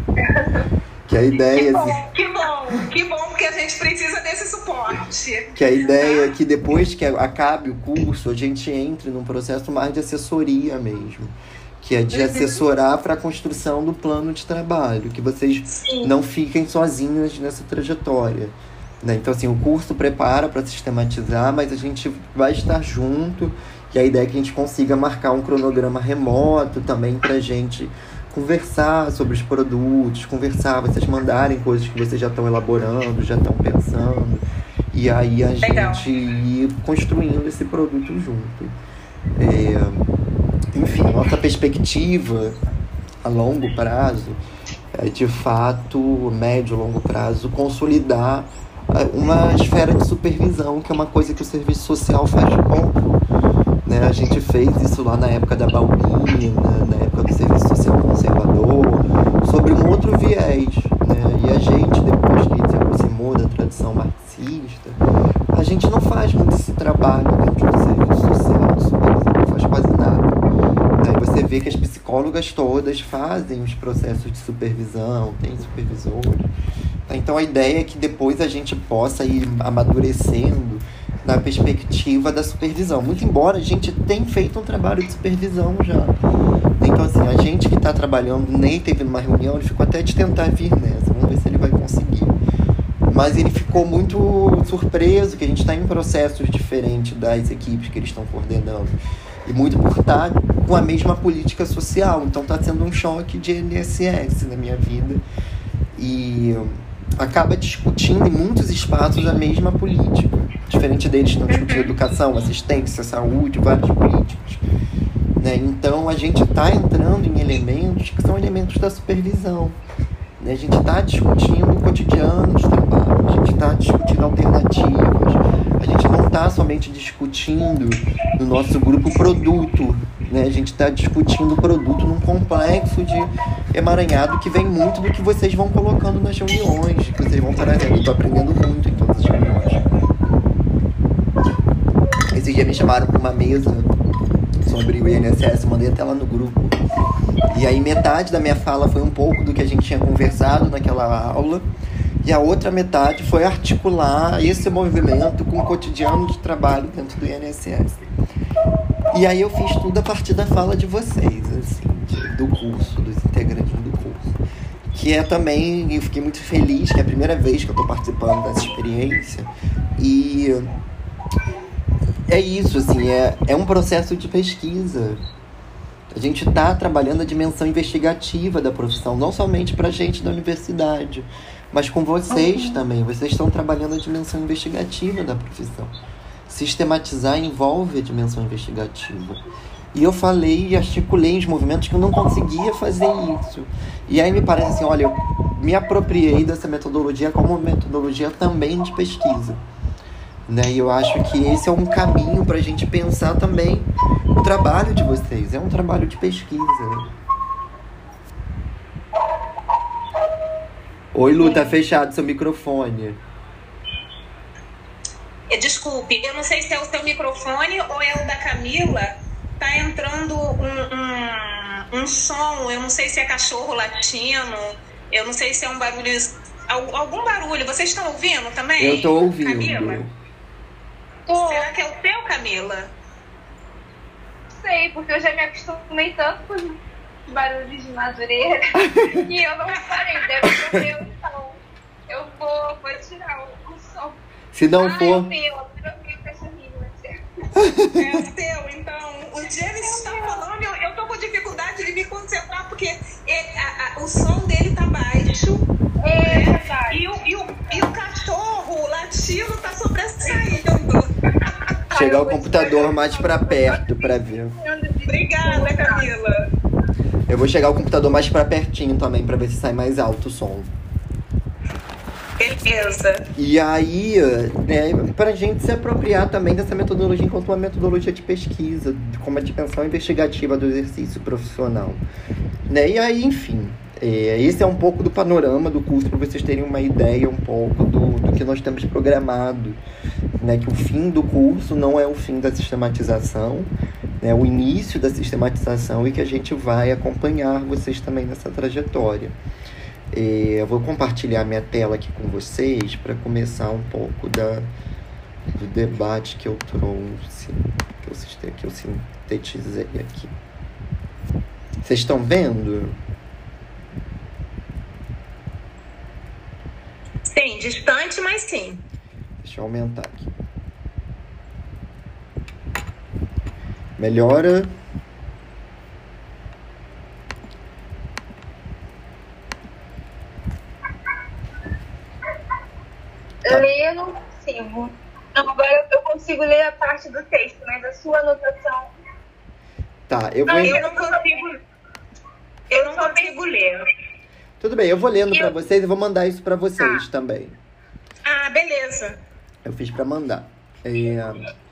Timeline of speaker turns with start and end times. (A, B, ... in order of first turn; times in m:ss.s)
0:01.1-0:02.0 A
0:01.5-0:06.2 B
0:05.5-0:38.8 A
0:12.1-0:12.6 B
0:35.6-0:36.0 B
0:39.4-0:40.1 A
0:40.7-0:42.6 A
0:43.2-0:44.4 A
0:44.9-0:53.0 A
0:53.8-1:05.0 A
1:05.5-1:10.4 A
1:11.0-1:16.5 A
1:17.1-1:26.2 A
1:26.8-1:32.4 A
1:33.1-1:45.2 A
1:46.0-1:54.6 A
1:51.5-1:51.9 B
1:55.4-1:59.8 A
2:00.4-2:19.8 A
2:22.3-2:23.9 A
2:24.6-2:26.8 A
2:27.5-2:31.7 A
2:32.2-2:38.1 A
2:39.1-2:44.4 A
2:44.9-2:50.7 A
2:52.3-2:55.2 A
2:56.1-3:05.9 A
3:02.3-3:02.8 C
3:06.5-3:09.4 A
3:09.9-3:19.6 A
3:20.5-3:27.1 A
3:31.1-3:33.2 A
3:31.4-3:31.8 C
3:35.5-3:50.0 B
3:48.8-3:50.1 A
3:51.3-3:51.7 C
3:51.3-3:52.9 B
3:54.6-4:04.2 C
3:58.8-3:59.2 A
3:59.8-4:00.4 B
4:04.5-4:05.3 A
4:04.8-4:07.2 C
4:07.6-4:08.0 A
4:08.0-4:15.6 B
4:09.7-4:10.4 C
4:16.0-4:17.1 C
4:16.2-4:21.5 B
4:21.9-4:26.1 C
4:21.9-4:24.6 A
4:25.0-4:26.4 B
4:27.3-4:30.7 A
4:32.4-4:33.3 B
4:33.4-4:42.0 A
4:42.7-4:49.8 A
4:50.4-4:59.4 A
5:00.1-5:04.7 A
5:05.5-5:10.3 A
5:11.8-5:13.0 A
5:17.3-5:18.8 B
5:19.4-5:20.3 A
5:24.0-5:24.7 A
5:33.4-5:38.9 C
5:40.1-5:40.8 A
5:40.5-5:41.5 C
5:40.6-5:41.5 B
5:42.7-5:43.8 B
5:42.7-5:43.3 C
5:44.6-5:47.6 A
5:46.8-5:47.0 C
5:48.2-5:49.2 B
5:49.6-5:51.5 A